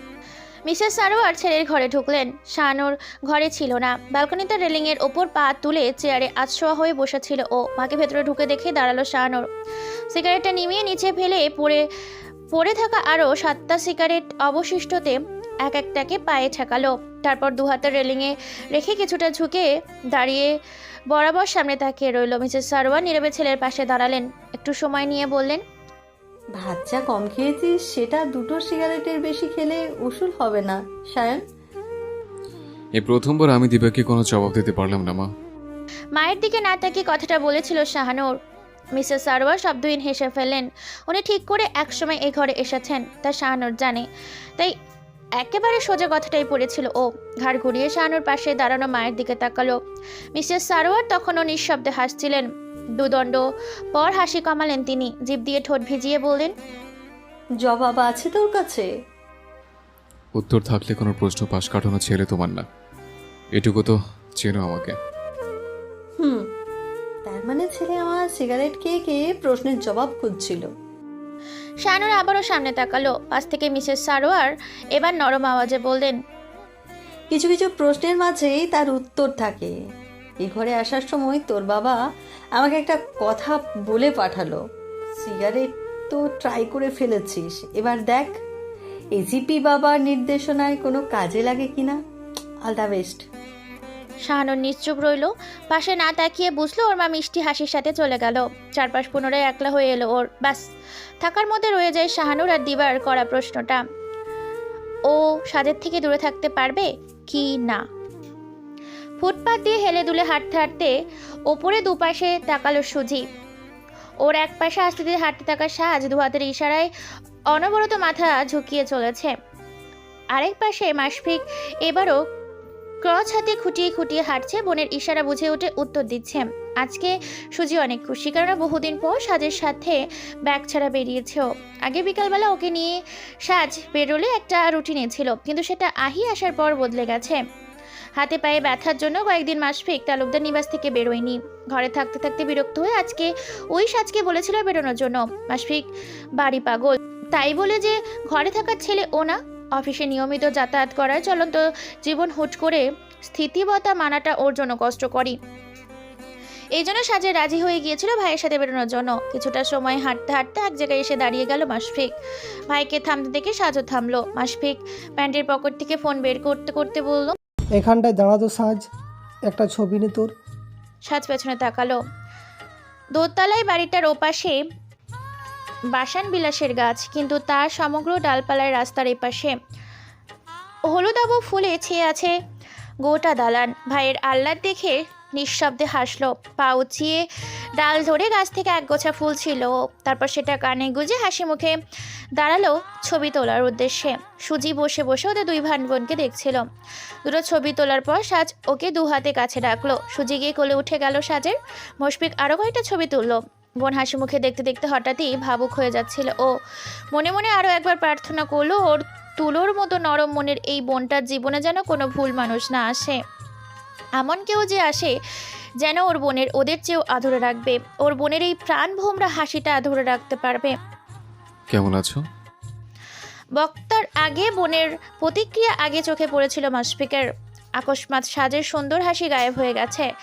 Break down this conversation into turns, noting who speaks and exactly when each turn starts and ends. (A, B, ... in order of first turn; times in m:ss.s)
0:00.7-0:09.4 A
0:10.1-0:11.8 A
0:12.5-0:20.5 A
0:21.1-0:25.6 A
0:26.6-0:31.4 B
0:33.0-0:35.3 C
0:36.2-0:38.3 A
0:39.0-0:44.0 A
0:45.4-0:49.8 A
0:50.3-0:52.5 A
0:53.0-0:53.4 A
0:53.9-0:56.5 A
0:57.6-0:58.8 B
1:00.4-1:02.6 C
1:03.6-1:05.0 C
1:06.2-1:06.4 B
1:07.2-1:10.6 B
1:11.8-1:16.2 A
1:17.3-1:19.7 B
1:20.4-1:22.0 B
1:22.6-1:24.6 B
1:25.2-1:28.4 B
1:29.2-1:32.0 B
1:32.6-1:33.2 B
1:34.3-1:40.6 A
1:41.2-1:43.8 A
1:45.1-1:47.8 A
1:49.2-1:50.9 A
1:51.5-1:53.2 A
1:54.2-1:56.9 A
1:57.5-1:59.3 A
2:00.3-2:02.2 A
2:03.0-2:12.9 A
2:13.5-2:17.4 A
2:18.2-2:25.8 A
2:26.4-2:35.4 A
2:36.8-2:42.1 A
2:42.7-2:47.4 A
2:47.8-2:48.8 D
2:49.5-2:50.3 D
2:51.1-2:52.0 A
2:53.2-2:54.6 A
2:55.9-2:59.5 A
3:00.9-3:02.3 A
3:03.0-3:07.2 A
3:07.8-3:11.8 A
3:12.4-3:16.6 A
3:17.2-3:26.5 A
3:27.1-3:33.2 A
3:34.2-3:35.1 A
3:35.8-3:40.7 A
3:41.7-3:42.2 C
3:43.6-3:47.3 A
3:47.8-3:50.1 A